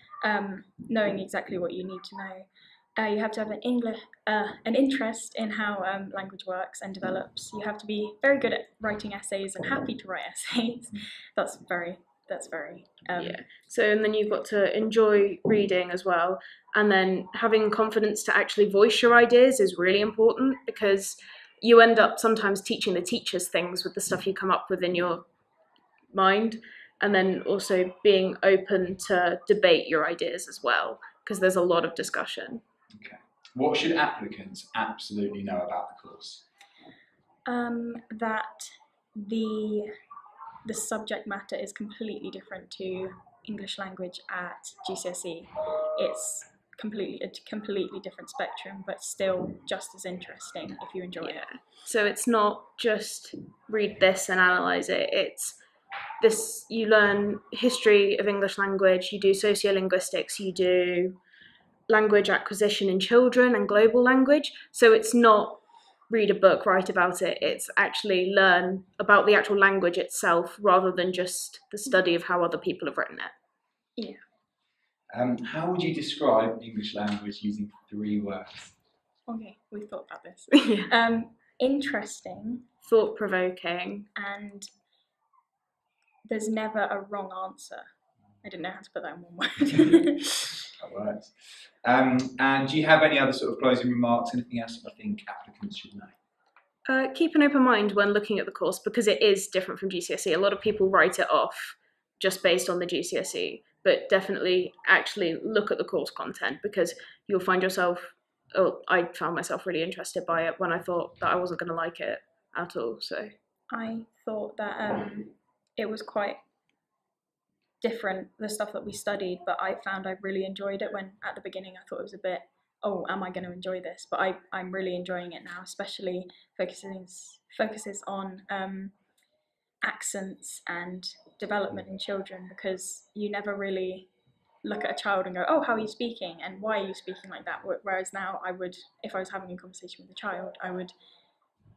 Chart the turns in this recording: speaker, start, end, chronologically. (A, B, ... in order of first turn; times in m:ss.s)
0:00.2-0:13.4 A
0:13.2-0:25.2 B
0:26.1-0:32.6 B
0:32.9-0:36.4 C
0:37.4-0:39.9 A
0:40.6-0:51.4 A
0:51.2-0:55.6 B
0:56.2-1:01.2 B
1:01.9-1:13.3 B
1:14.0-1:14.2 A
1:15.1-1:18.7 C
1:19.2-1:22.6 A
1:20.5-1:20.8 B
1:22.8-1:24.1 B
1:24.1-1:24.7 A
1:26.2-1:27.9 A
1:28.4-1:30.3 A
1:30.8-1:36.2 C
1:36.9-1:53.3 B
1:53.7-1:56.4 A
1:57.8-2:08.9 A
2:09.8-2:14.1 A
2:14.6-2:20.9 A